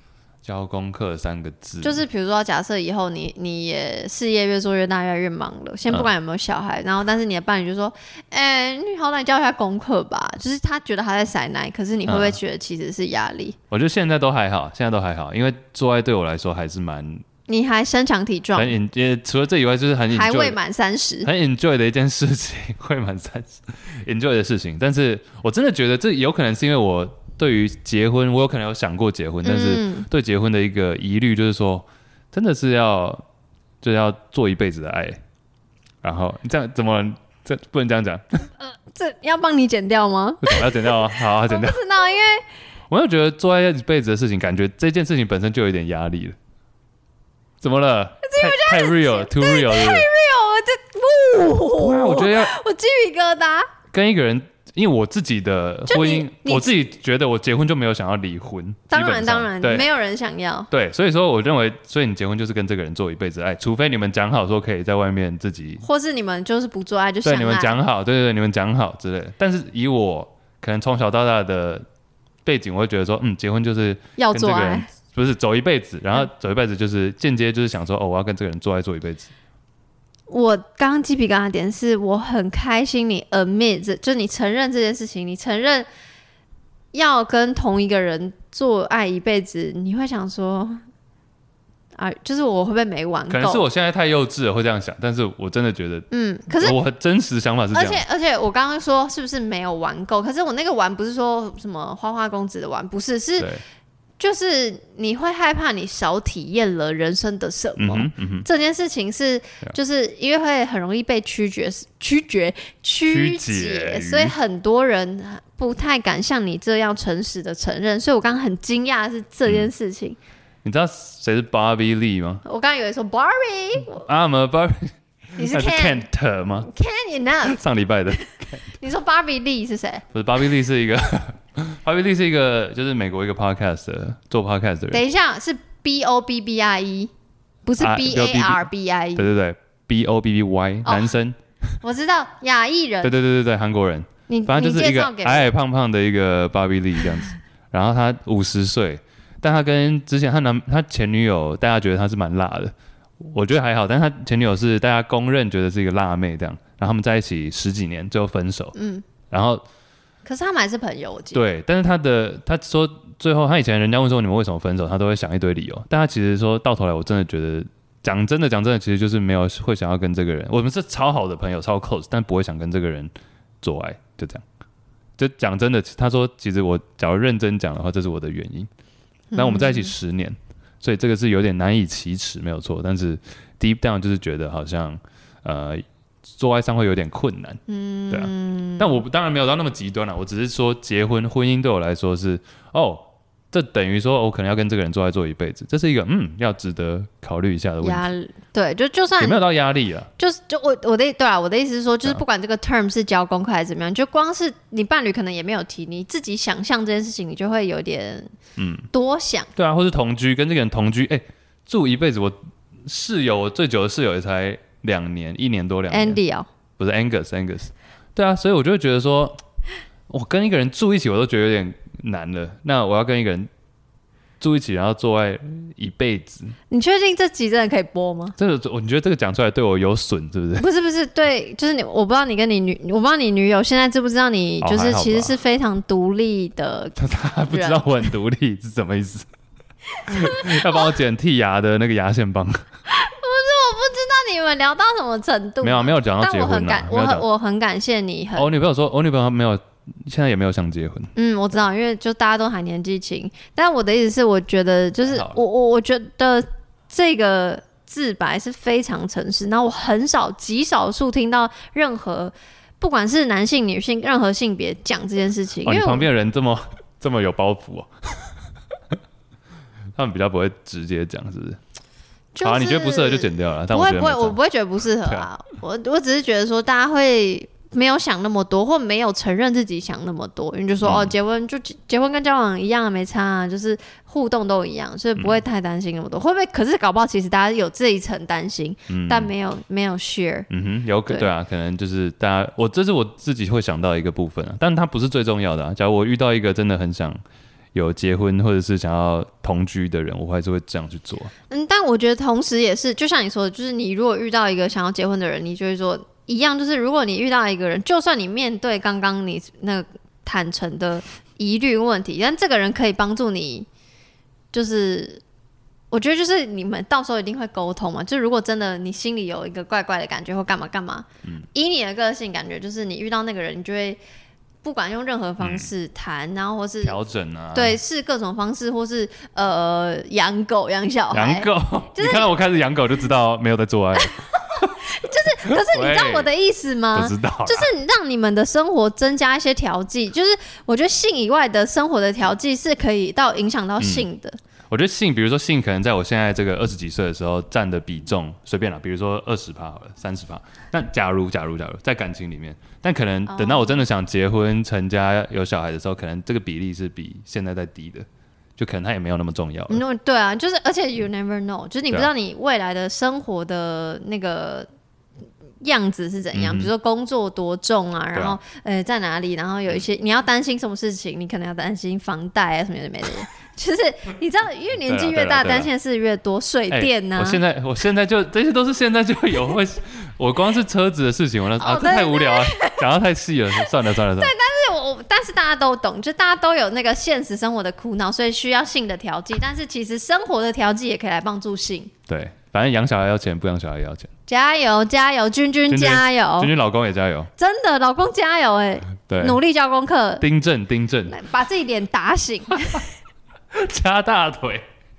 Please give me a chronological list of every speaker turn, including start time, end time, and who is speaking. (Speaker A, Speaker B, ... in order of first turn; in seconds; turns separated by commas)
Speaker A: 0.4-2.0, Speaker B: 1.8-13.6, Speaker A: 12.1-12.4, Speaker A: 13.7-17.2, Speaker B: 17.5-18.7, Speaker A: 18.6-20.6, Speaker B: 20.1-21.3, Speaker A: 21.2-33.2, Speaker B: 29.4-30.1, Speaker A: 33.8-35.2, Speaker A: 36.0-38.5, Speaker B: 38.6-42.4, Speaker A: 40.4-41.8, Speaker A: 42.9-46.4, Speaker A: 47.6-50.1, Speaker B: 48.2-53.7, Speaker A: 51.7-52.5, Speaker A: 53.9-59.9, Speaker B: 55.9-56.8, Speaker B: 58.9-60.7, Speaker A: 60.7-65.8, Speaker B: 65.8-67.8, Speaker A: 67.2-71.8, Speaker A: 72.5-79.3, Speaker B: 74.2-74.9, Speaker B: 80.3-85.9, Speaker B: 86.9-90.8, Speaker B: 92.0-93.7, Speaker A: 93.3-98.0, Speaker B: 96.1-96.8, Speaker B: 97.7-103.5, Speaker A: 103.4-103.6, Speaker B: 104.2-120.2, Speaker A: 107.8-108.5, Speaker A: 113.0-114.3, Speaker A: 120.6-122.4, Speaker B: 122.4-124.1, Speaker A: 123.9-126.7, Speaker B: 125.4-126.0, Speaker B: 126.6-127.6, Speaker A: 127.5-128.7, Speaker B: 128.8-130.1, Speaker A: 130.1-135.0, Speaker B: 134.9-137.1, Speaker B: 137.7-139.3, Speaker A: 137.8-141.8, Speaker B: 140.8-141.2, Speaker B: 141.8-143.2, Speaker A: 143.0-158.8, Speaker B: 144.3-145.5, Speaker B: 158.8-159.1, Speaker A: 159.3-159.6, Speaker B: 160.2-161.4, Speaker A: 161.3-174.4, Speaker A: 175.2-178.7, Speaker B: 179.3-179.9, Speaker A: 179.3-198.1, Speaker B: 187.7-189.0, Speaker B: 197.8-199.4, Speaker A: 199.2-200.1, Speaker B: 200.2-208.3, Speaker A: 208.6-208.9, Speaker B: 208.9-209.5, Speaker A: 209.6-216.2, Speaker B: 215.9-216.5, Speaker A: 216.8-219.4, Speaker A: 220.1-223.5, Speaker A: 224.4-226.6, Speaker B: 226.7-228.4, Speaker A: 228.4-230.7, Speaker B: 230.6-237.0, Speaker A: 234.6-235.4, Speaker A: 237.0-239.3, Speaker B: 237.5-237.9, Speaker A: 240.1-242.7, Speaker B: 240.1-240.9, Speaker B: 242.9-248.5, Speaker A: 245.6-247.3, Speaker A: 248.4-251.1, Speaker B: 251.2-266.1, Speaker A: 255.1-255.4, Speaker A: 265.6-268.3, Speaker A: 270.0-271.6, Speaker B: 272.3-290.5, Speaker A: 272.4-274.4, Speaker A: 280.8-281.1, Speaker A: 288.9-289.3, Speaker A: 290.5-297.2, Speaker A: 297.7-301.3, Speaker B: 301.5-313.7, Speaker B: 314.5-315.2, Speaker B: 315.9-324.0, Speaker B: 324.6-327.0, Speaker A: 325.4-325.7, Speaker A: 326.8-327.8, Speaker B: 327.5-332.3, Speaker A: 331.1-334.8, Speaker B: 334.0-344.4, Speaker A: 335.5-336.3, Speaker A: 336.9-337.7, Speaker A: 343.8-344.1, Speaker A: 344.7-358.1, Speaker B: 353.3-353.8, Speaker A: 358.6-359.8, Speaker B: 359.7-364.7, Speaker B: 365.6-377.4, Speaker A: 366.3-366.7, Speaker A: 374.9-375.7, Speaker A: 376.7-384.3, Speaker B: 381.6-382.9, Speaker B: 384.1-391.9, Speaker A: 392.1-394.1, Speaker B: 394.3-396.5, Speaker A: 395.7-397.3, Speaker B: 397.4-400.3, Speaker A: 399.1-399.4, Speaker A: 400.2-401.1, Speaker B: 401.1-402.9, Speaker A: 403.5-404.6